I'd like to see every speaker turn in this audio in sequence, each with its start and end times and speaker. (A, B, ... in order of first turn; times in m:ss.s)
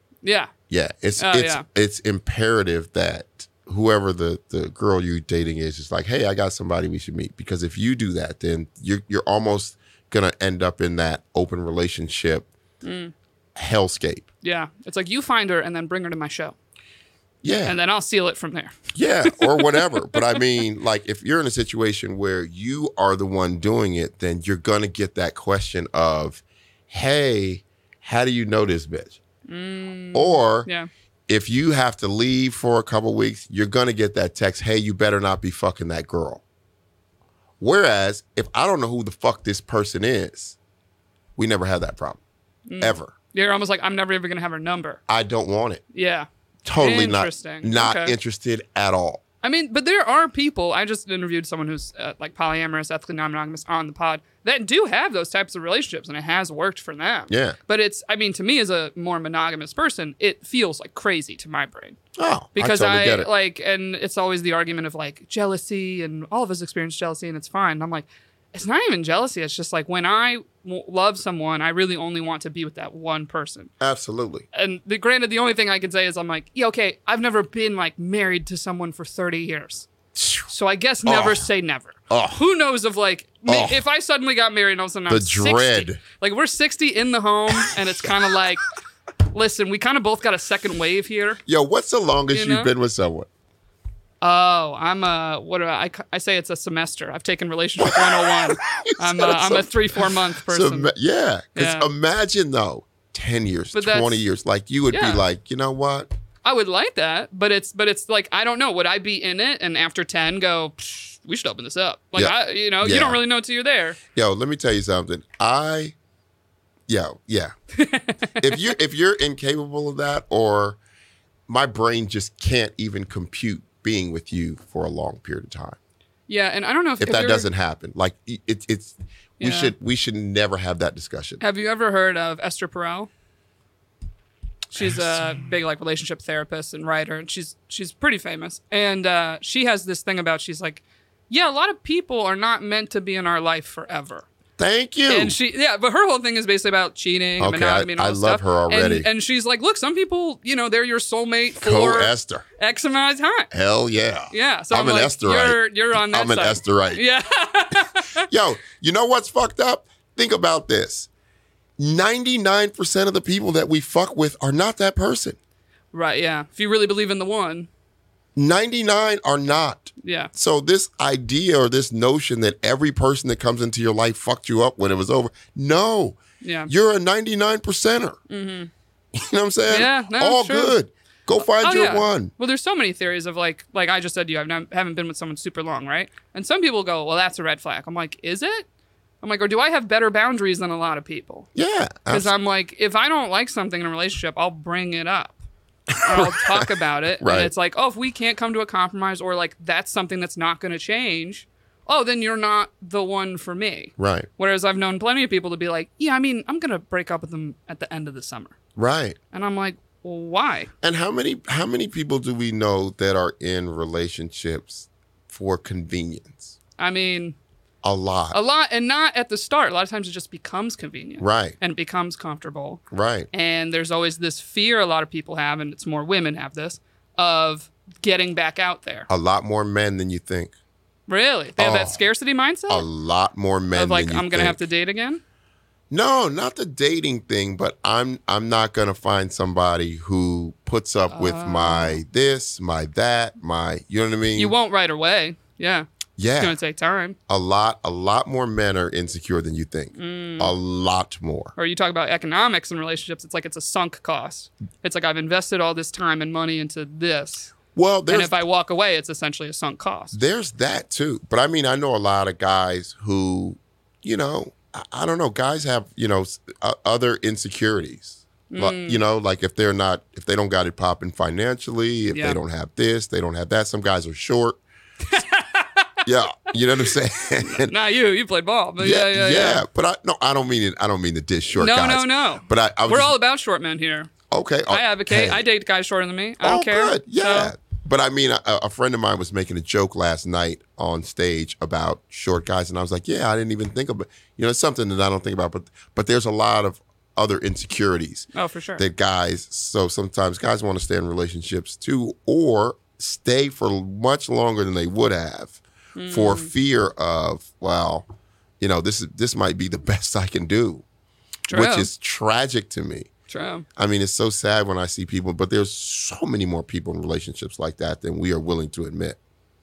0:00.2-0:00.5 A
0:00.7-0:12.5 B
0:01.2-0:01.6 A
0:12.8-0:13.1 A
0:13.6-0:14.3 B
0:14.4-0:16.5 A
0:17.4-0:17.8 B
0:17.6-0:20.4 A
0:18.9-0:29.2 B
0:29.5-0:30.9 A
0:30.1-0:30.7 B
0:31.3-0:36.4 B
0:37.6-0:40.6 B
0:41.4-0:42.2 B
0:42.7-0:45.0 A
0:42.8-0:43.1 B
0:45.1-0:45.8 B
0:45.9-0:48.2 A
0:46.6-0:49.2 B
0:49.4-1:02.0 A
0:57.3-0:57.6 B
1:02.2-1:03.3 B
1:02.6-1:13.7 A
1:13.8-1:14.4 B
1:14.5-1:19.9 A
1:20.2-1:20.5 B
1:20.5-1:28.6 A
1:21.0-1:21.4 B
1:22.1-1:22.4 B
1:23.4-1:23.8 B
1:25.1-1:26.0 B
1:29.2-1:31.4 A
1:31.4-1:33.3 B
1:32.3-1:32.7 A
1:34.2-1:40.9 A
1:37.8-1:46.1 B
1:41.5-1:41.9 A
1:43.7-1:44.2 A
1:44.9-1:45.2 A
1:46.4-1:54.0 A
1:52.2-1:53.2 B
1:54.1-1:55.9 B
1:56.9-1:57.5 B
1:57.7-1:58.5 A
1:58.4-2:00.8 B
2:01.5-2:05.8 B
2:06.3-2:07.5 A
2:07.0-2:11.4 B
2:09.4-2:09.7 A
2:11.4-2:13.1 A
2:14.7-2:24.2 A
2:14.8-2:15.0 B
2:24.6-2:25.4 B
2:25.1-2:33.5 A
2:27.4-2:29.1 B
2:31.6-2:32.4 B
2:33.5-2:37.0 B
2:34.3-2:38.2 A
2:38.2-2:41.1 B
2:41.8-2:45.4 B
2:45.9-2:47.7 A
2:48.4-2:58.2 B
2:50.0-2:50.3 A
2:56.4-2:56.7 A
2:58.3-2:58.7 A
2:59.1-3:02.3 B
2:59.7-3:00.7 A
3:01.5-3:08.7 A
3:09.2-3:11.5 A
3:11.5-3:12.3 B
3:12.1-3:15.4 A
3:15.9-3:16.7 B
3:16.0-3:28.6 A
3:17.2-3:17.5 B
3:24.0-3:24.3 B
3:28.8-3:29.2 B
3:29.3-3:30.7 A
3:30.8-3:36.5 B
3:36.8-3:37.4 A
3:37.8-3:38.4 B
3:38.3-3:42.8 A
3:41.2-3:41.6 B
3:42.9-3:43.3 B
3:43.3-3:49.1 A
3:49.1-3:50.5 B
3:51.1-3:52.8 A
3:51.6-3:52.0 B
3:52.7-3:54.6 B
3:53.7-3:55.2 A
3:55.9-4:04.6 B
4:01.1-4:02.0 A
4:04.3-4:05.8 A
4:06.2-4:06.6 B
4:06.4-4:07.2 A
4:07.3-4:11.5 B
4:09.9-4:10.5 A
4:11.6-4:17.5 A
4:17.7-4:18.3 B
4:18.1-4:20.2 A
4:20.1-4:34.6 B
4:28.5-4:29.0 A
4:32.1-4:32.4 A
4:35.0-4:36.0 A
4:36.0-4:37.7 B
4:37.4-4:39.6 A
4:38.8-4:43.1 B
4:41.5-4:44.1 A
4:44.3-4:45.4 B
4:44.7-4:47.5 A
4:46.4-5:08.0 B
4:58.3-4:58.8 A
5:06.0-5:06.5 A
5:08.6-5:10.8 B
5:11.5-5:11.9 A
5:11.5-5:13.1 B
5:13.3-5:13.6 A
5:13.8-5:19.2 B